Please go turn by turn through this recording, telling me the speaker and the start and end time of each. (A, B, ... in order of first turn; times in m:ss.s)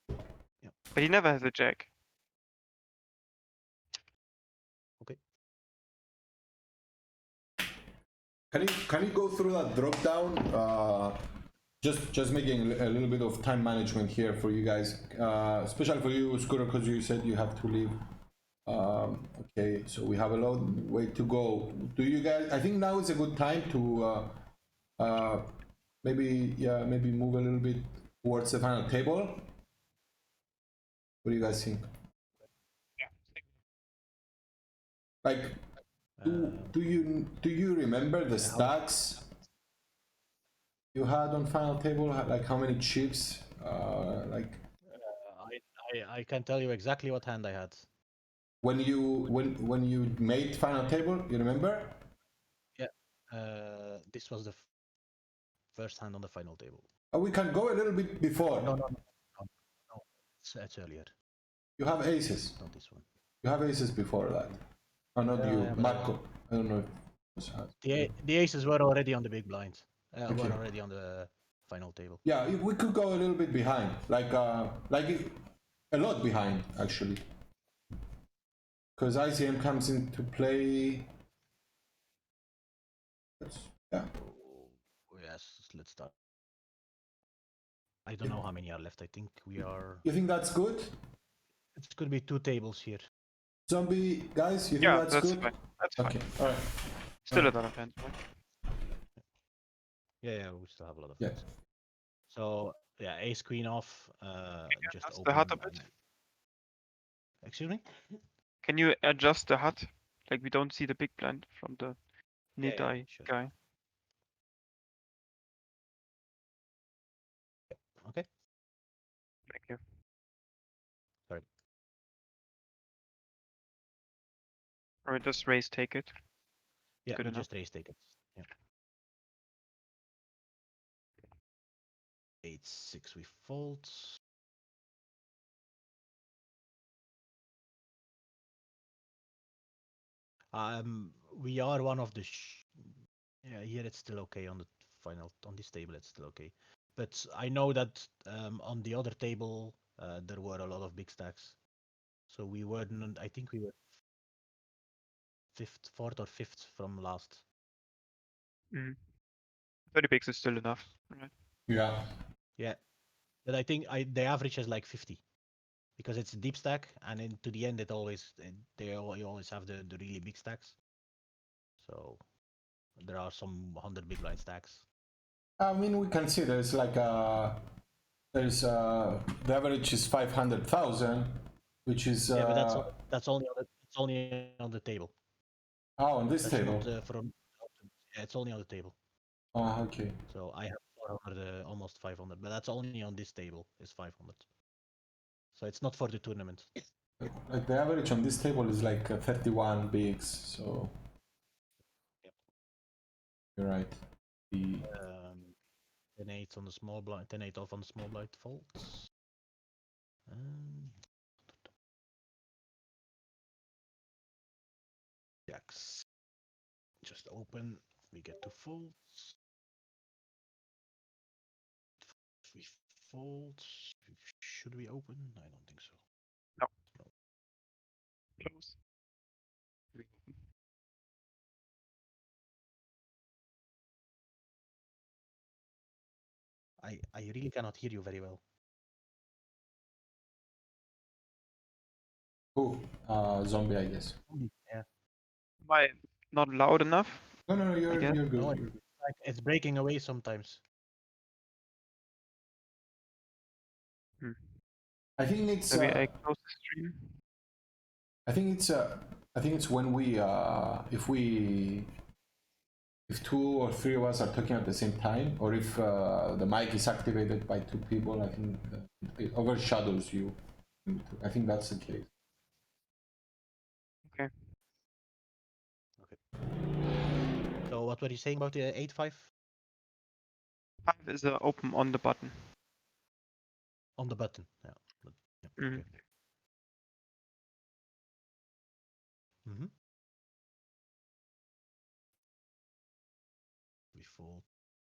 0:00.6-0:00.8 A
0:00.9-0:01.9 B
0:08.5-0:11.2 C
0:11.8-0:18.0 C
0:18.7-0:24.4 C
0:25.0-0:25.5 C
0:26.0-0:29.4 C
0:31.2-0:31.8 C
0:33.0-0:33.4 B
0:35.2-0:35.6 C
0:36.2-0:36.8 A
0:36.2-0:39.2 C
0:38.4-0:38.9 A
0:40.9-0:44.6 C
0:44.9-0:47.9 A
0:48.6-0:52.0 C
0:52.8-0:54.7 A
0:55.7-0:56.9 A
0:57.1-0:58.8 C
0:58.5-1:01.1 A
1:01.8-1:02.6 C
1:02.6-1:03.0 A
1:03.4-1:04.6 C
1:05.2-1:08.2 C
1:05.3-1:06.2 A
1:07.8-1:12.2 A
1:10.3-1:10.6 C
1:12.2-1:15.4 C
1:15.9-1:17.2 C
1:19.0-1:21.1 C
1:23.4-1:24.1 C
1:24.2-1:26.1 A
1:28.0-1:30.1 A
1:30.0-1:30.9 C
1:31.8-1:33.1 A
1:33.7-1:37.5 C
1:34.8-1:36.2 B
1:37.3-1:38.2 B
1:40.2-1:41.5 A
1:41.2-1:41.5 C
1:42.3-1:46.0 A
1:44.7-1:45.9 B
1:47.4-1:48.2 A
1:48.6-1:53.5 B
1:52.6-1:53.4 A
1:57.7-1:58.3 A
1:59.5-1:59.8 B
2:05.0-2:06.1 B
2:07.0-2:08.5 A
2:07.1-2:07.5 B
2:12.4-2:14.2 A
2:20.5-2:31.7 A
2:32.3-2:33.8 A
2:35.5-2:37.5 A
2:38.7-2:39.0 B
2:39.9-2:41.3 B
2:41.7-2:42.0 C
2:43.4-2:45.2 A
2:46.0-2:50.8 A
2:51.8-2:52.3 A
2:53.0-2:54.9 A
2:55.6-2:57.6 C
2:58.3-3:02.9 C
3:02.3-3:05.1 A
3:06.0-3:06.9 C
3:06.4-3:09.0 A
3:09.5-3:10.2 C
3:10.3-3:14.5 A
3:15.5-3:16.7 A
3:17.2-3:20.9 C
3:23.6-3:24.0 C
3:24.5-3:24.9 C
3:24.8-3:25.6 A
3:26.2-3:29.1 A
3:30.3-3:31.7 A
3:35.5-3:36.1 A
3:37.0-3:39.4 A
3:42.0-3:46.0 A
3:48.4-3:48.8 B
3:49.9-3:50.4 B
3:56.8-3:58.4 A
4:02.6-4:04.2 C
4:04.3-4:04.9 A
4:05.6-4:08.3 B
4:07.5-4:08.8 C
4:08.3-4:10.6 A
4:14.2-4:14.5 B
4:15.2-4:16.1 C
4:15.7-4:17.1 B
4:18.3-4:21.9 C
4:23.1-4:32.1 C
4:37.6-4:39.3 A
4:40.8-4:42.5 B
4:44.0-4:45.9 A
4:45.6-4:46.0 B
4:49.4-4:49.7 A
4:53.9-4:54.5 A